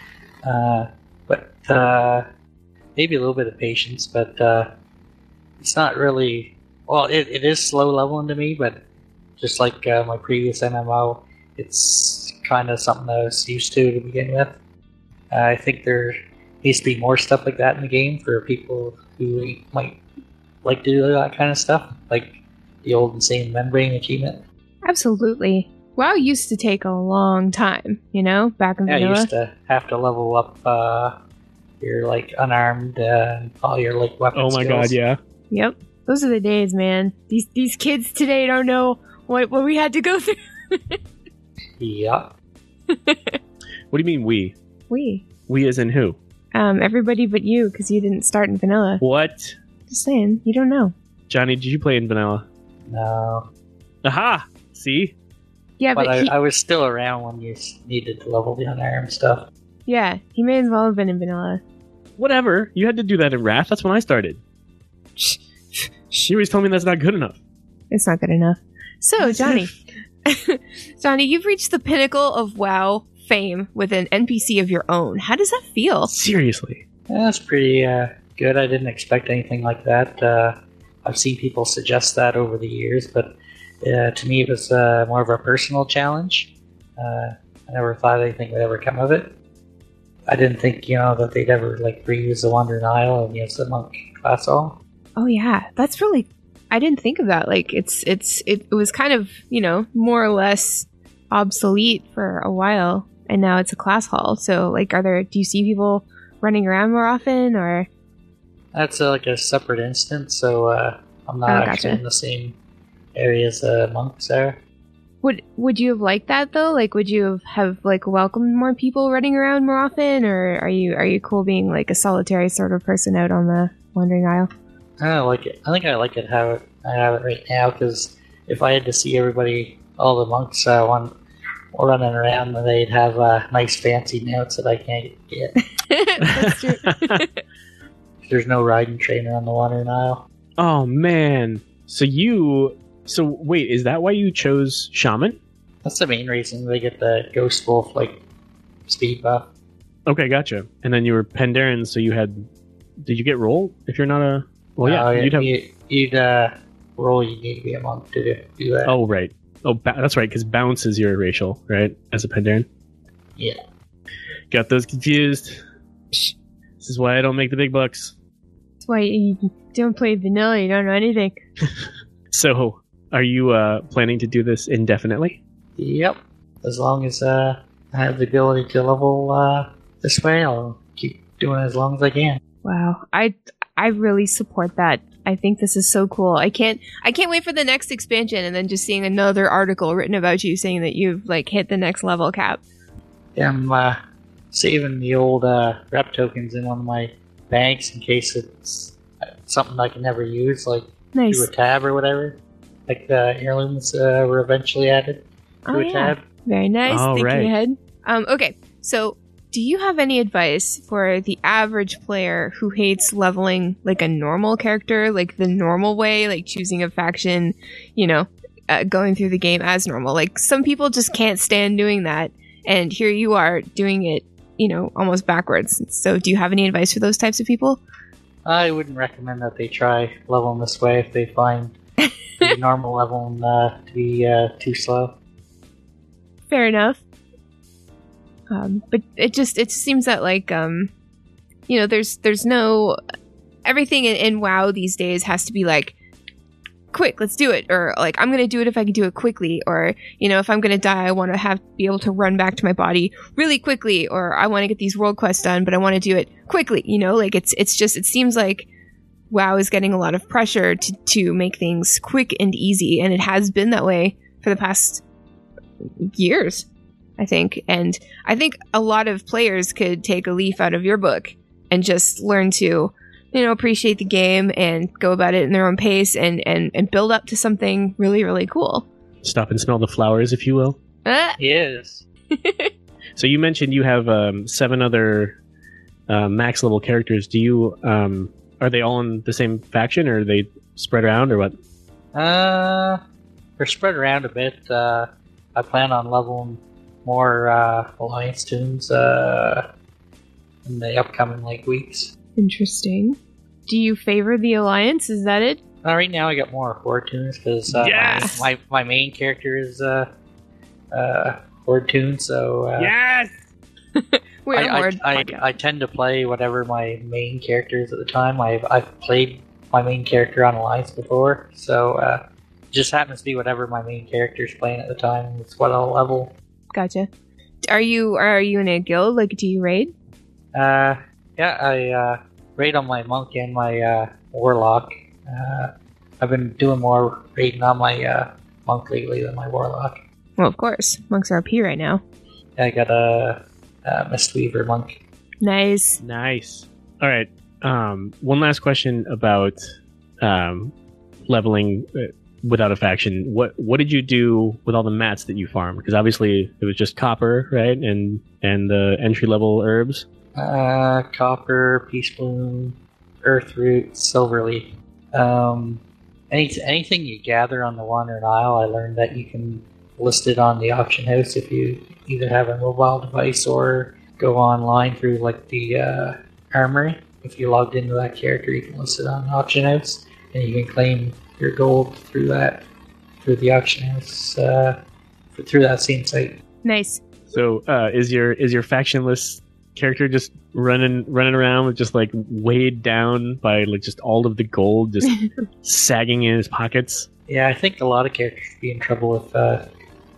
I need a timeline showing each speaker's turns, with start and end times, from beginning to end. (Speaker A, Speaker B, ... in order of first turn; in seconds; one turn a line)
Speaker A: 0.4-2.2
Speaker A: 3.0-4.7
Speaker A: 5.6-8.8
Speaker A: 9.4-14.6
Speaker A: 15.3-20.0
Speaker A: 20.6-24.4
Speaker B: 24.9-29.3
Speaker A: 28.9-31.2
Speaker A: 31.8-35.0
Speaker C: 34.3-35.2
Speaker B: 35.5-41.0
Speaker A: 41.8-42.3
Speaker B: 42.9-43.4
Speaker C: 43.9-44.5
Speaker B: 44.9-45.2
Speaker C: 45.5-46.2
Speaker B: 46.5-49.0
Speaker C: 49.0-49.6
Speaker B: 49.9-50.9
Speaker C: 51.3-52.5
Speaker A: 52.9-53.5
Speaker C: 54.0-55.1
Speaker B: 55.8-56.3
Speaker A: 56.0-59.5
Speaker B: 59.9-61.6
Speaker C: 62.2-64.4
Speaker C: 66.1-67.4
Speaker B: 67.9-69.7
Speaker C: 69.2-69.7
Speaker B: 70.3-76.1
Speaker C: 76.1-76.8
Speaker A: 77.1-89.3
Speaker A: 90.3-94.8
Speaker B: 95.2-107.9
Speaker A: 108.7-112.6
Speaker B: 111.5-112.0
Speaker A: 113.2-114.6
Speaker B: 115.2-124.5
Speaker A: 125.0-131.1
Speaker A: 131.7-135.6
Speaker B: 135.8-137.3
Speaker C: 136.3-137.2
Speaker A: 138.2-140.3
Speaker C: 140.6-145.4
Speaker A: 145.8-148.2
Speaker A: 148.9-149.5
Speaker C: 150.1-152.5
Speaker C: 153.1-155.5
Speaker A: 154.8-158.9
Speaker C: 158.8-162.7
Speaker C: 164.5-165.6
Speaker C: 166.8-168.1
Speaker B: 168.8-171.4
Speaker C: 172.3-175.4
Speaker A: 175.8-182.4
Speaker B: 182.6-192.6
Speaker A: 193.4-194.0
Speaker A: 194.5-206.2
Speaker B: 201.1-201.5
Speaker B: 205.7-227.8
Speaker C: 206.9-207.5
Speaker A: 228.4-231.8
Speaker A: 232.4-235.2
Speaker B: 236.5-237.0
Speaker B: 238.5-240.9
Speaker B: 241.7-243.0
Speaker B: 243.7-245.9
Speaker B: 246.9-258.7
Speaker B: 259.3-265.0
Speaker B: 265.8-266.7
Speaker B: 267.2-278.9
Speaker C: 279.2-280.8
Speaker B: 281.1-281.4
Speaker A: 281.4-282.1
Speaker B: 282.4-282.7
Speaker C: 283.2-285.4
Speaker C: 286.1-291.5
Speaker A: 292.1-293.0
Speaker A: 293.6-299.7
Speaker A: 300.6-302.1
Speaker B: 302.4-305.6
Speaker A: 305.8-310.1
Speaker C: 307.7-308.4
Speaker B: 308.0-308.4
Speaker A: 310.9-312.9
Speaker C: 312.8-313.3
Speaker B: 314.0-315.4
Speaker A: 314.5-326.4
Speaker B: 326.7-327.1
Speaker B: 327.6-329.9
Speaker A: 330.5-340.0
Speaker B: 340.4-342.0
Speaker A: 342.6-345.0
Speaker B: 345.4-346.0
Speaker C: 346.0-349.6
Speaker C: 350.2-350.7
Speaker C: 351.3-360.1
Speaker A: 360.4-382.6
Speaker A: 383.2-384.8
Speaker A: 385.3-386.4
Speaker B: 386.6-387.0
Speaker C: 387.3-397.1
Speaker A: 397.3-399.7